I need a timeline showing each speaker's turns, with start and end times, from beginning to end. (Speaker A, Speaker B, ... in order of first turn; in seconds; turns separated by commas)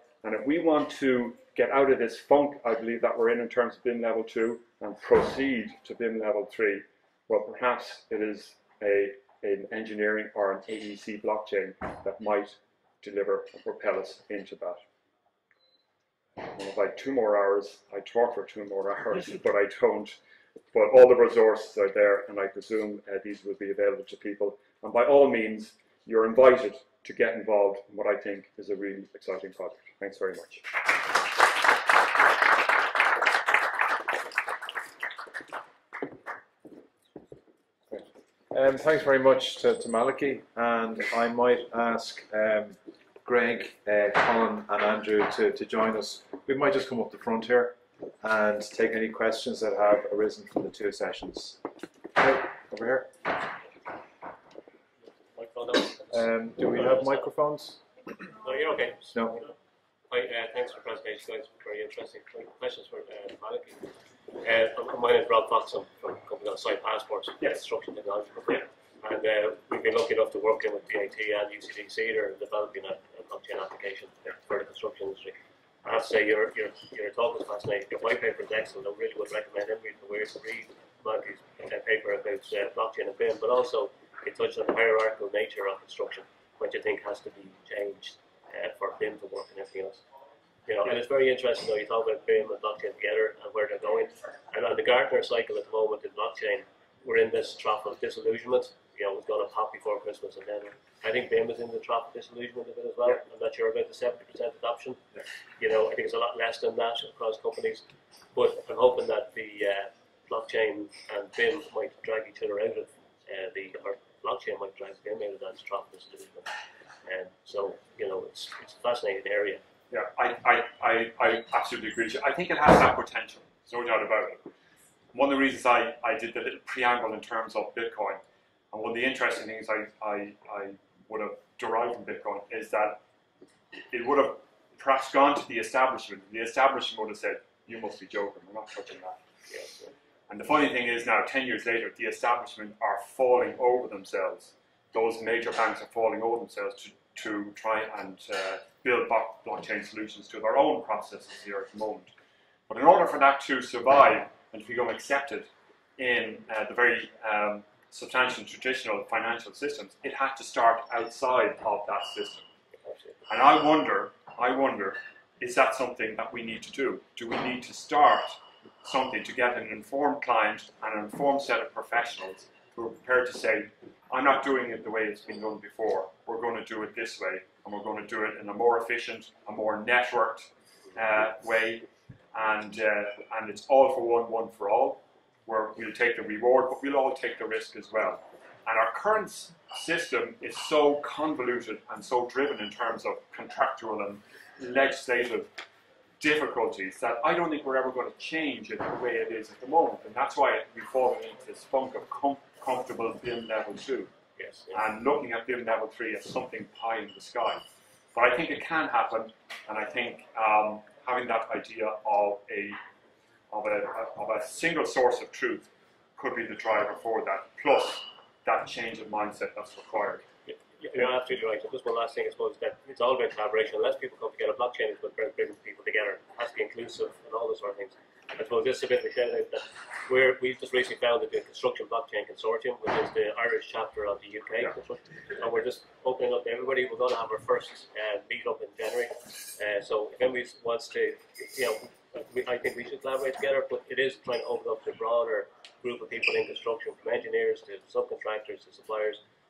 Speaker A: 0.2-14.8, Speaker A: 16.4-20.2, Speaker A: 20.7-30.7, Speaker B: 37.9-51.6, Speaker B: 52.2-53.1, Speaker C: 55.1-57.3, Speaker B: 56.1-57.8, Speaker C: 58.3-59.5, Speaker B: 59.1-59.4, Speaker C: 60.1-90.0, Speaker C: 90.7-105.0, Speaker C: 105.6-116.5, Speaker C: 117.0-119.6, Speaker A: 119.9-124.5, Speaker A: 125.1-128.2, Speaker A: 128.7-133.0, Speaker A: 133.9-139.2, Speaker C: 139.5-139.9, Speaker A: 140.3-152.1, Speaker A: 152.7-162.5, Speaker A: 163.3-195.5, Speaker A: 196.2-204.1, Speaker C: 204.4-204.8, Speaker A: 204.7-212.8, Speaker A: 213.5-220.2, Speaker C: 220.5-249.2